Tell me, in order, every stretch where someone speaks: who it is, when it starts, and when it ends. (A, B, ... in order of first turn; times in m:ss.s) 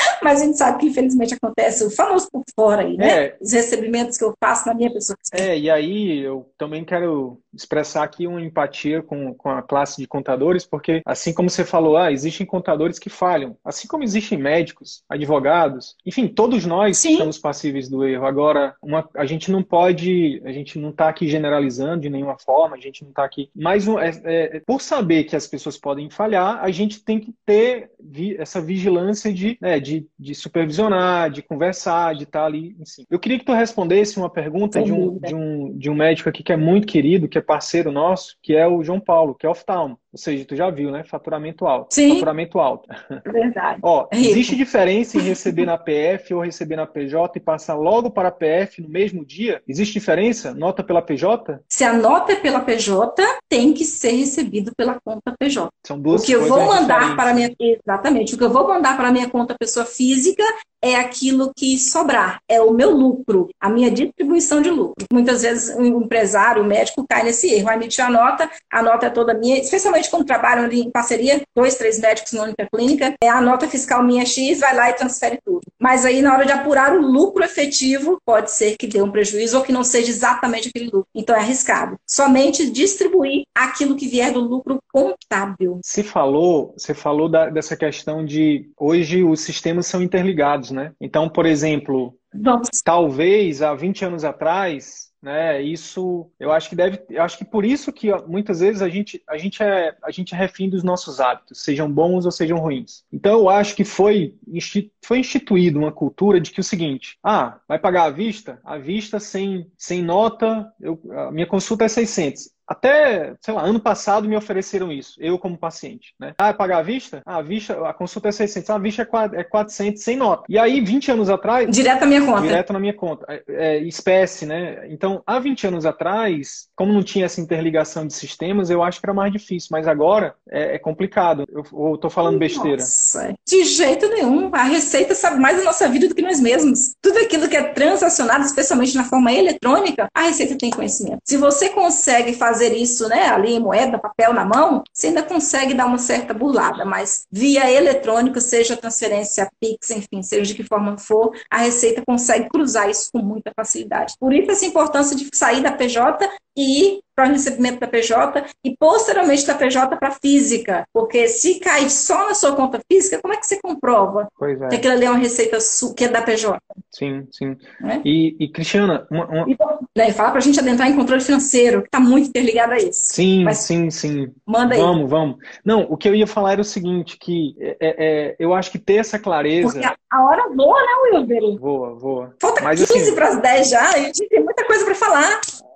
0:00.2-0:05.5 A
0:03.0-0:03.4 B
0:05.3-0:43.2 B
0:16.9-0:17.3 A
0:34.7-0:35.3 A
0:41.9-0:42.3 A
0:43.2-0:44.6 A
0:43.8-0:51.6 B
0:45.2-0:45.6 A
0:51.7-1:25.8 A
0:55.8-0:57.5 B
1:25.8-1:32.2 B
1:32.3-1:32.8 A
1:32.8-2:01.7 B
2:01.7-2:02.6 A
2:02.4-2:12.9 B
2:12.2-2:46.6 A
2:44.4-2:44.8 B
2:46.9-2:49.5 B
2:49.4-2:53.6 A
2:53.1-2:59.9 B
2:54.5-2:54.9 A
2:59.6-3:01.6 A
3:01.6-3:03.2 B
3:02.4-3:05.4 A